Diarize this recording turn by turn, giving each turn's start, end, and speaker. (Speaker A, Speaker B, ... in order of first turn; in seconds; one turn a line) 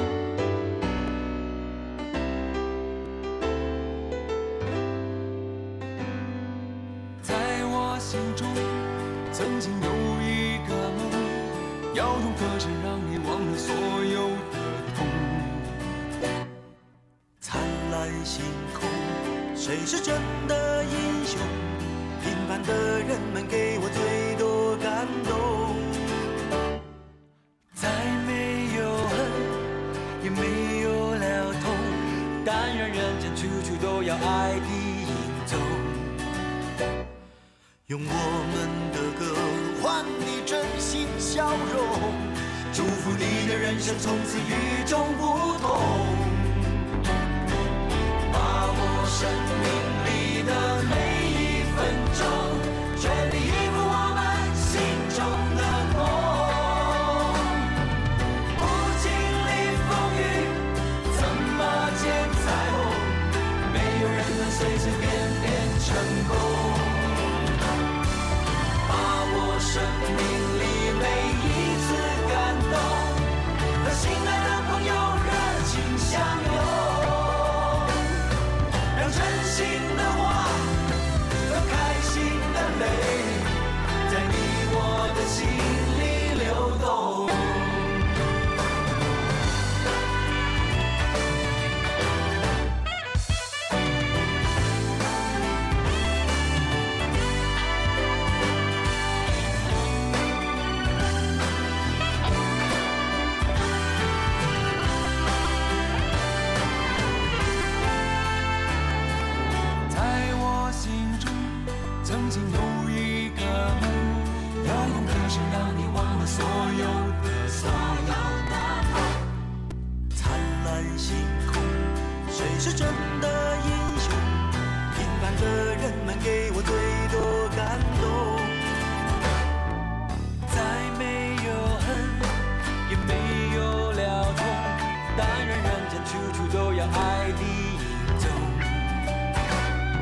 Speaker A: 7.2-15.8
Speaker A: 17.4-26.0
Speaker A: 27.8-29.6
Speaker A: 30.2-36.2
Speaker A: 37.9-46.9
Speaker A: 48.3-57.7
Speaker A: 58.5-67.3
Speaker A: 68.8-78.1
Speaker A: 78.9-80.9
Speaker A: 81.4-88.0
Speaker A: 109.9-119.1
Speaker A: 120.1-128.7
Speaker A: 130.5-139.0